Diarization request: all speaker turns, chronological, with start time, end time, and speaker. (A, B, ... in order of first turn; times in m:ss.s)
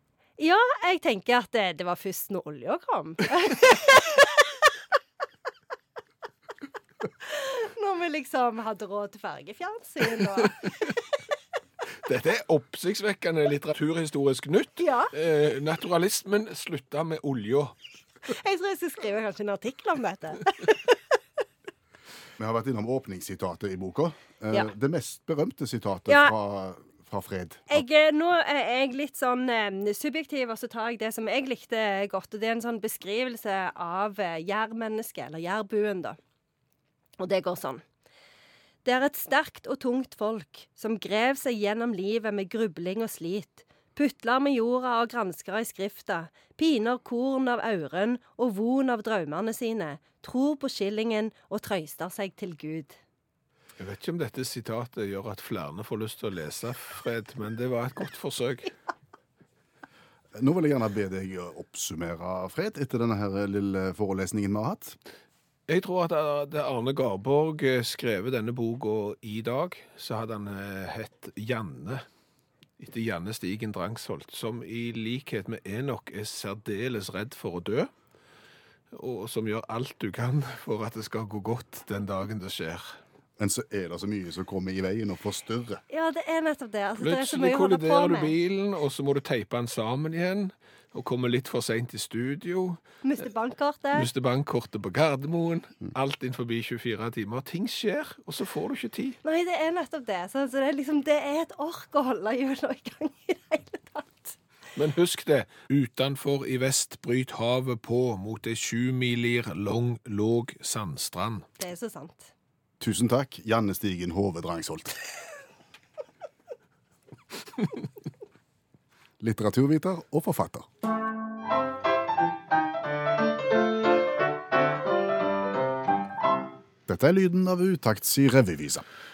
0:00.4-0:04.3 A
0:07.2-0:10.6 A
0:12.0-0:17.7 B
0:14.8-0:15.1 A
0:18.3-0:21.0 A
0:22.4-0:27.8 C
0:26.1-0:26.3 A
0:27.7-0:36.2 A
0:37.2-0:37.8 A
0:38.8-0:53.0 A
0:53.8-0:58.7 B
1:00.4-1:05.0 C
1:05.7-1:12.0 B
1:12.8-1:17.9 B
1:18.9-1:22.9 B
1:23.4-1:25.8 C
1:25.9-1:28.3 A
1:27.0-1:32.8 B
1:33.0-1:34.1 A
1:33.9-1:39.2 B
1:39.2-1:44.4 A
1:44.8-1:51.4 B
1:51.6-1:52.3 A
1:52.8-1:55.0 C
1:59.2-2:00.7 C
2:06.9-2:08.8 C